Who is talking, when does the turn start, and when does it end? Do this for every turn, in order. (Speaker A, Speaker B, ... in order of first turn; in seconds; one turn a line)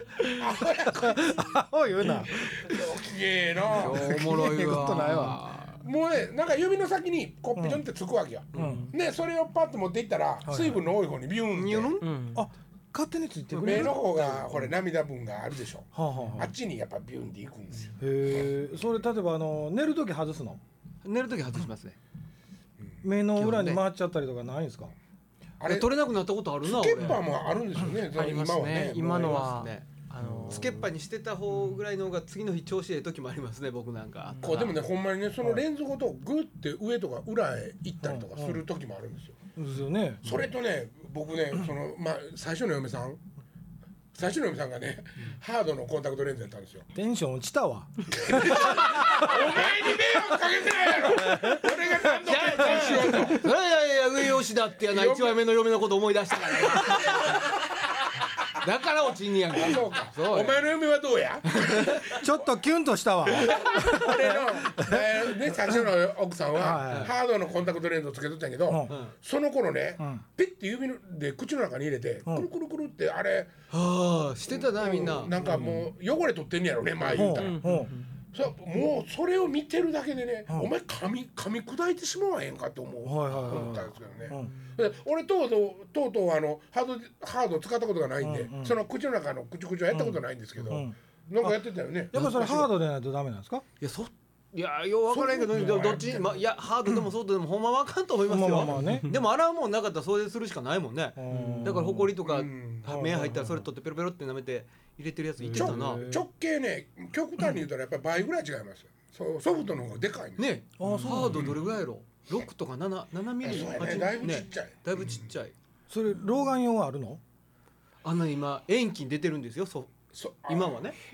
Speaker A: 0.3-1.6
Speaker B: 1.0-2.4
Speaker A: 2.3-4.2
Speaker C: 3.7-5.8
Speaker B: 3.8-5.4
Speaker A: 5.8-12.0
Speaker B: 7.5-7.8
Speaker C: 8.5-8.8
Speaker B: 8.6-8.9
Speaker D: 8.6-8.9
Speaker B: 10.4-10.8
Speaker C: 11.5-12.1
Speaker D: 12.0-12.5
Speaker B: 12.3-14.0
Speaker C: 13.5-14.5
Speaker A: 13.6-18.5
Speaker B: 15.9-16.5
Speaker B: 18.0-20.6
Speaker C: 21.0-22.0
Speaker B: 23.0-24.9
Speaker C: 23.3-23.8
Speaker A: 25.6-26.0
Speaker C: 25.6-27.3
Speaker A: 26.6-29.5
Speaker D: 28.1-30.9
Speaker C: 29.0-29.9
Speaker C: 30.4-34.7
Speaker D: 31.5-31.8
Speaker D: 34.3-34.8
Speaker A: 34.4-39.4
Speaker B: 38.0-38.6
Speaker B: 39.5-40.4
Speaker A: 40.2-43.2
Speaker A: 44.1-46.9
Speaker B: 46.9-49.6
Speaker A: 48.1-53.5
Speaker B: 51.2-52.1
Speaker C: 52.2-57.4
Speaker A: 54.8-55.4
Speaker A: 56.6-57.4
Speaker C: 58.6-60.6
Speaker A: 59.5-62.3
Speaker C: 61.6-62.0
Speaker B: 62.1-65.8
Speaker A: 63.4-73.5
Speaker B: 66.5-67.1
Speaker B: 68.7-68.9
Speaker C: 68.9-69.1
Speaker B: 70.0-70.2
Speaker C: 73.7-75.3
Speaker A: 74.5-92.5
Speaker B: 75.3-75.9
Speaker B: 77.1-77.9
Speaker D: 77.2-78.2
Speaker B: 83.0-84.5
Speaker D: 84.4-84.7
Speaker B: 88.2-88.8
Speaker B: 89.9-93.6
Speaker C: 92.1-92.7
Speaker C: 93.8-106.1
Speaker A: 95.1-96.4
Speaker B: 98.3-99.1
Speaker D: 98.8-99.2
Speaker B: 101.2-102.1
Speaker D: 101.3-101.6
Speaker A: 102.2-102.9
Speaker B: 102.8-103.7
Speaker B: 105.4-106.2
Speaker A: 105.5-110.5
Speaker C: 110.4-115.5
Speaker B: 110.8-111.6
Speaker D: 110.8-111.5
Speaker A: 113.4-115.2
Speaker B: 115.9-117.2
Speaker C: 118.0-121.0
Speaker A: 120.1-120.8